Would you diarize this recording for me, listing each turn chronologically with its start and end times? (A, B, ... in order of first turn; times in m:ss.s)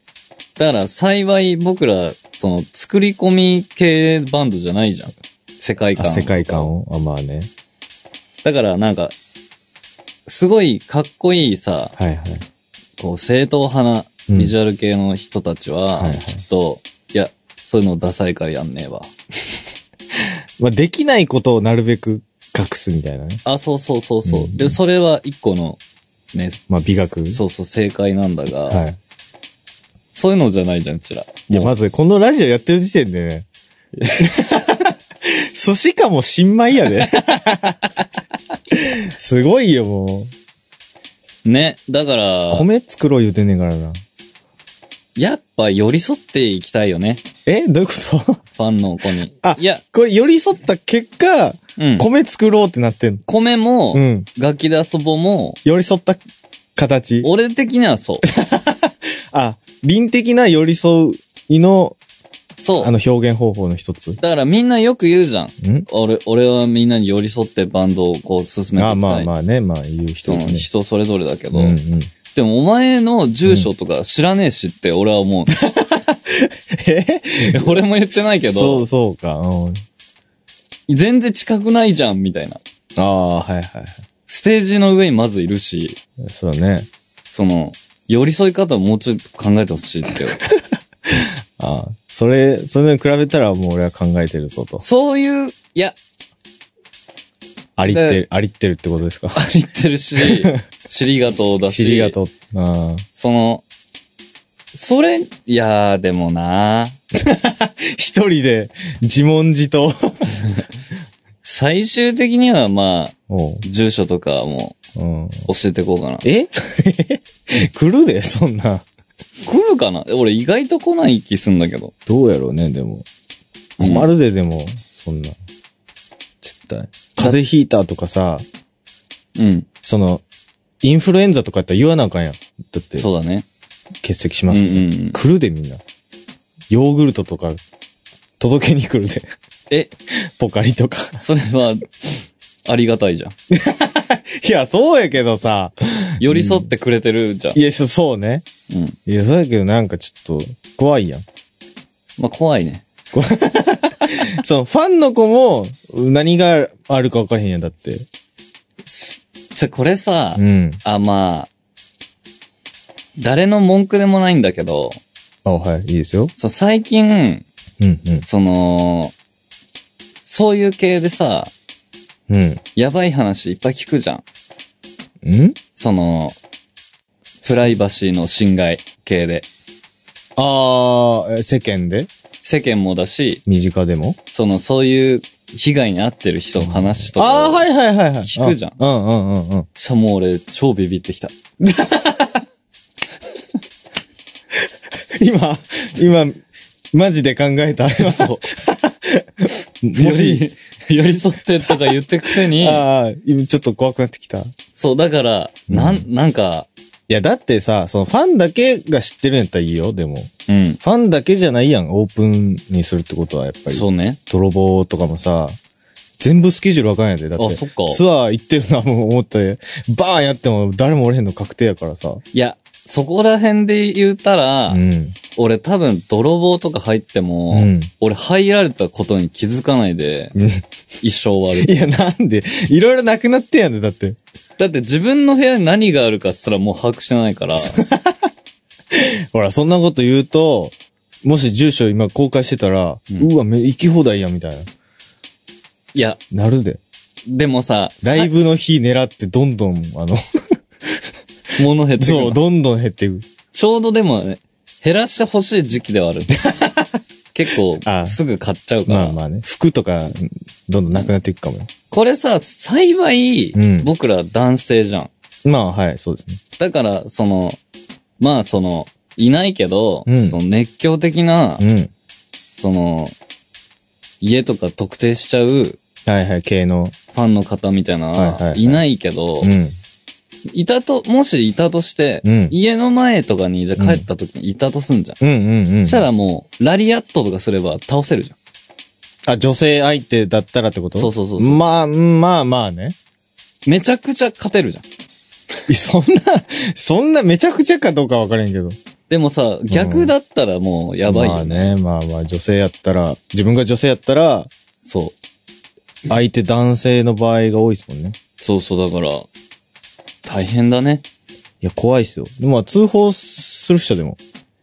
0:00.6-0:06.7 A
0:06.0-0:07.5 B
0:08.4-0:09.1 A
0:10.3-0:11.9 A
0:12.0-0:12.5 B
0:13.0-0:19.1 A
0:14.3-0:14.5 B
0:16.0-0:16.4 B
0:20.6-0:23.4 B
0:23.4-0:25.8 A
0:24.3-0:24.8 B
0:26.3-0:28.8 A
0:26.7-0:27.4 B
0:28.7-0:29.0 B
0:30.1-0:31.7 A
0:31.5-0:33.5 B
0:34.0-0:34.3 A
0:34.2-0:37.8 B
0:38.7-0:40.3 B
0:41.4-0:42.7 A
0:42.5-0:44.0 B
0:45.2-0:47.2 A
0:47.5-0:48.4 B
0:48.6-0:49.8 A
0:49.4-0:53.2 B
0:51.8-0:52.1 A
0:53.3-0:55.6 A
0:53.9-0:54.3 B
0:55.6-0:56.2 B
0:56.8-0:57.3 B
0:57.2-0:58.2 A
0:58.3-1:02.0 B
1:02.6-1:02.9 A
1:02.8-1:04.2 B
1:04.2-1:09.3 A
1:05.6-1:05.9 B
1:08.8-1:10.7 B
1:10.2-1:11.8 A
1:11.5-1:12.1 B
1:12.4-1:15.6 A
1:15.5-1:19.8 B
1:17.4-1:18.9 A
1:20.9-1:22.6 A
1:23.0-1:24.0 B
1:24.3-1:26.0 A
1:26.2-1:26.9 B
1:27.3-1:30.4 A
1:31.1-1:34.8 B
1:34.8-1:36.0 A
1:37.8-1:39.4 B
1:37.9-1:38.2 A
1:39.4-1:42.2 A
1:40.2-1:40.6 B
1:41.7-1:43.0 B
1:43.2-1:43.6 A
1:44.7-1:47.0 A
1:47.2-1:50.3 B
1:51.4-1:54.8 A
1:53.3-1:53.7 B
1:55.0-1:55.5 B
1:55.5-1:56.3 A
1:56.2-1:58.8 B
1:59.5-2:01.9 A
2:02.1-2:03.1 B
2:03.8-2:04.1 A
2:03.8-2:05.4 B
2:06.4-2:08.5 B
2:09.4-2:09.7 A
2:09.8-2:10.2 B
2:10.8-2:13.1 B
2:13.0-2:13.4 A
2:14.0-2:15.8 B
2:14.5-2:15.2 A
2:16.7-2:17.6 B
2:18.4-2:19.3 B
2:20.4-2:21.2 B
2:21.2-2:23.4 A
2:23.5-2:26.7 B
2:26.2-2:27.6 A
2:27.5-2:28.5 B
2:28.7-2:29.0 A
2:29.1-2:31.2 B
2:32.2-2:32.8 A
2:33.1-2:38.1 B
2:38.9-2:41.5 A
2:40.4-2:40.8 B
2:43.2-2:45.0 A
2:45.4-2:46.3 B
2:46.4-2:47.5 A
2:47.8-2:48.2 B
2:48.2-2:49.1 A
2:50.2-2:51.5 A
2:52.3-2:52.6 B
2:52.8-2:54.2 A
2:55.2-2:55.6 B
2:55.8-2:56.4 A
2:57.4-2:59.5 A
3:00.4-3:02.1 B
3:02.4-3:03.4 A
3:03.5-3:04.2 B
3:04.3-3:07.7 A
3:06.6-3:09.7 B
3:08.2-3:08.8 A
3:09.8-3:11.3 A
3:11.6-3:12.4 B
3:15.2-3:20.5 B
3:18.0-3:18.5 A
3:20.0-3:22.8 A
3:21.6-3:24.5 B
3:24.8-3:26.7 A
3:25.7-3:26.0 B
3:27.1-3:30.3 B
3:30.5-3:30.8 A
3:30.8-3:35.6 B
3:33.7-3:34.2 A
3:36.2-3:42.2 B
3:37.4-3:38.0 A
3:42.3-3:44.8 A
3:44.7-3:45.2 B
3:45.4-3:50.3 A
3:47.5-3:47.9 B
3:50.4-3:50.6 B
3:51.0-3:51.8 A
3:51.6-3:54.2 B
3:54.6-3:57.8 A
3:57.6-3:58.2 B
3:58.9-4:04.7 B
4:05.9-4:06.2 A
4:06.3-4:06.8 B
4:07.3-4:08.4 A
4:08.0-4:10.2 B
4:11.6-4:12.4 A
4:12.0-4:13.3 B
4:13.5-4:16.4 A
4:16.5-4:16.8 B
4:17.3-4:19.2 A
4:17.8-4:18.2 B
4:18.9-4:21.7 B
4:21.9-4:25.1 A
4:23.6-4:23.9 B
4:25.4-4:26.4 B
4:26.6-4:27.6 A
4:28.2-4:31.6 A
4:30.1-4:30.4 B
4:31.6-4:31.9 B
4:32.6-4:33.2 A
4:34.2-4:35.8 A
4:36.1-4:37.0 B
4:37.1-4:39.5 A
4:38.2-4:38.8 B
4:39.4-4:39.8 B
4:40.5-4:45.2 A
4:42.2-4:42.6 B
4:43.8-4:44.1 B
4:45.2-4:46.1 B
4:45.8-4:48.4 A
4:49.3-4:53.0 B
4:51.0-4:51.6 A
4:53.7-4:54.8 A
4:55.7-4:58.8 B
4:59.1-5:01.7 A
4:59.7-5:00.1 B
5:01.1-5:04.5 B
5:04.8-5:05.2 A
5:06.1-5:08.2 B
5:08.4-5:09.3 A
5:10.2-5:11.0 A
5:11.6-5:14.2 B